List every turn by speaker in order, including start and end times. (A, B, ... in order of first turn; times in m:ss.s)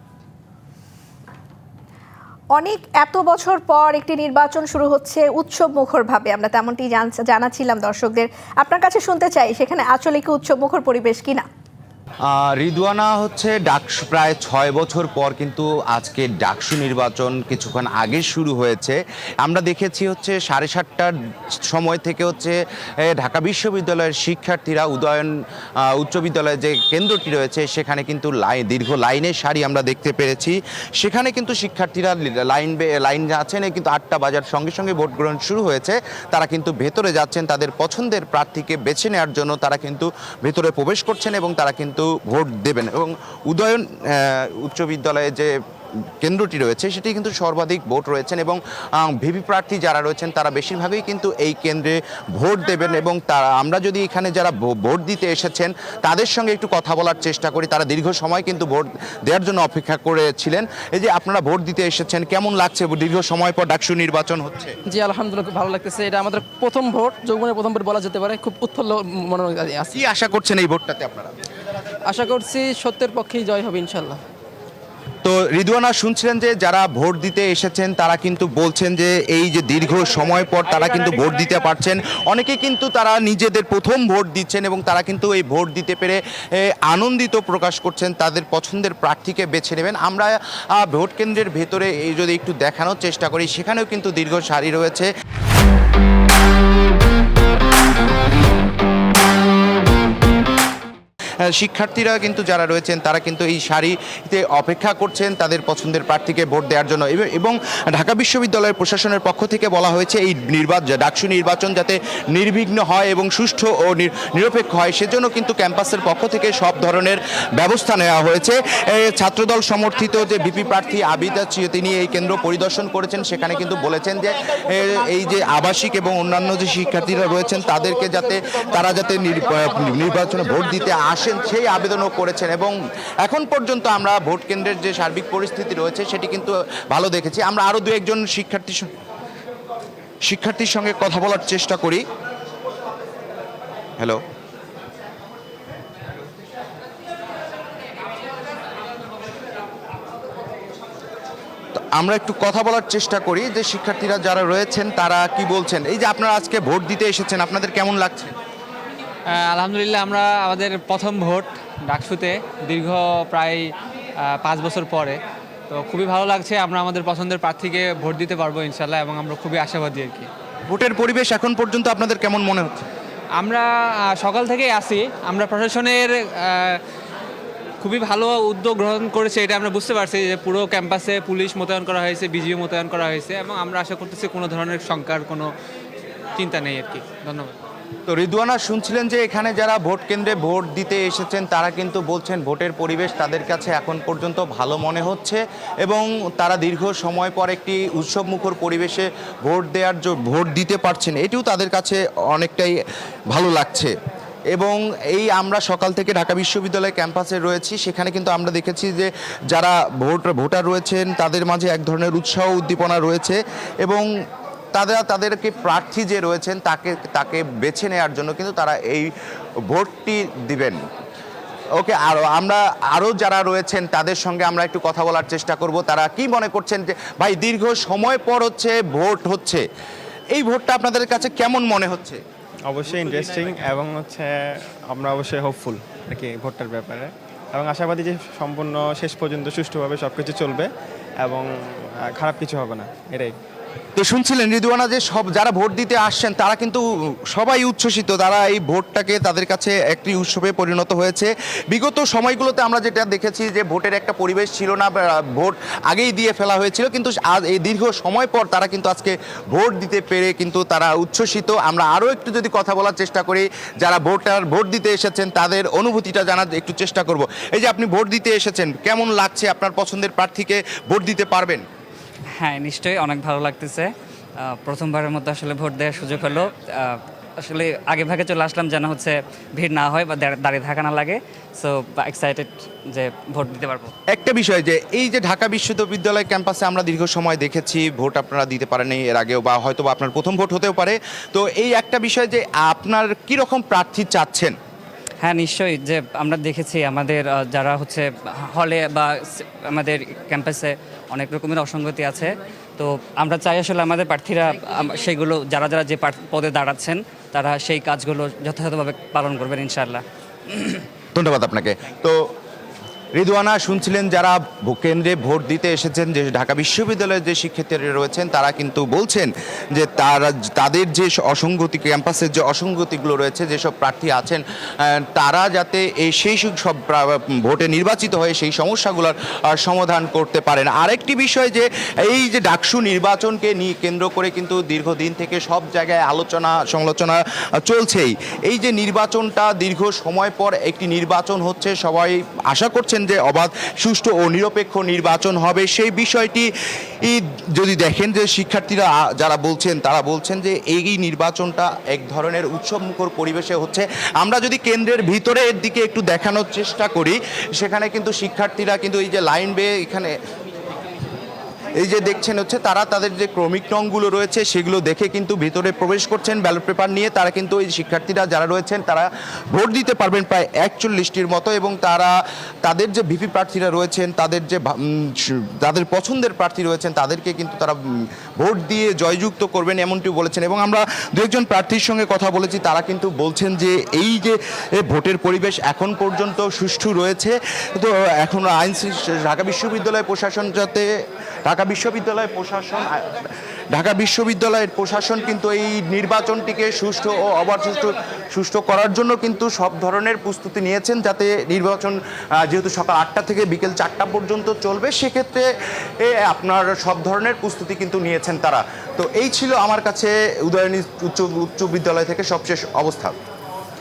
0:02.5-0:11.5 A
0:12.3-0:21.1 B
0:21.6-0:25.3 B
0:25.8-0:45.5 B
0:46.2-1:04.8 B
1:04.9-1:10.0 C
1:10.0-1:11.3 B
1:12.1-1:14.2 C
1:15.2-1:35.1 B
1:41.5-2:18.9 B
2:20.3-2:22.0 B
2:31.8-2:38.3 B
2:39.4-2:43.7 D
2:44.3-2:50.3 D
2:50.7-2:52.7 B
2:53.4-2:56.8 D
2:57.8-3:05.5 D
3:06.4-3:07.6 D
3:08.1-3:22.8 B
3:23.3-3:23.9 B
3:24.5-3:34.1 B
3:34.7-3:39.1 B
3:39.7-3:40.8 B
3:41.8-3:49.6 B
3:50.3-3:52.2 B
3:52.7-4:00.7 E
4:01.2-4:03.4 E
4:04.0-4:31.6 B
4:32.4-4:43.9 F
4:44.1-4:54.6 B
4:55.2-5:10.8 F
5:11.1-5:12.3 B
5:13.2-5:46.5 B
5:47.0-6:00.2 B
6:01.8-6:17.8 B
6:18.4-6:30.9 B
6:31.5-6:45.4 B
6:46.0-6:53.2 B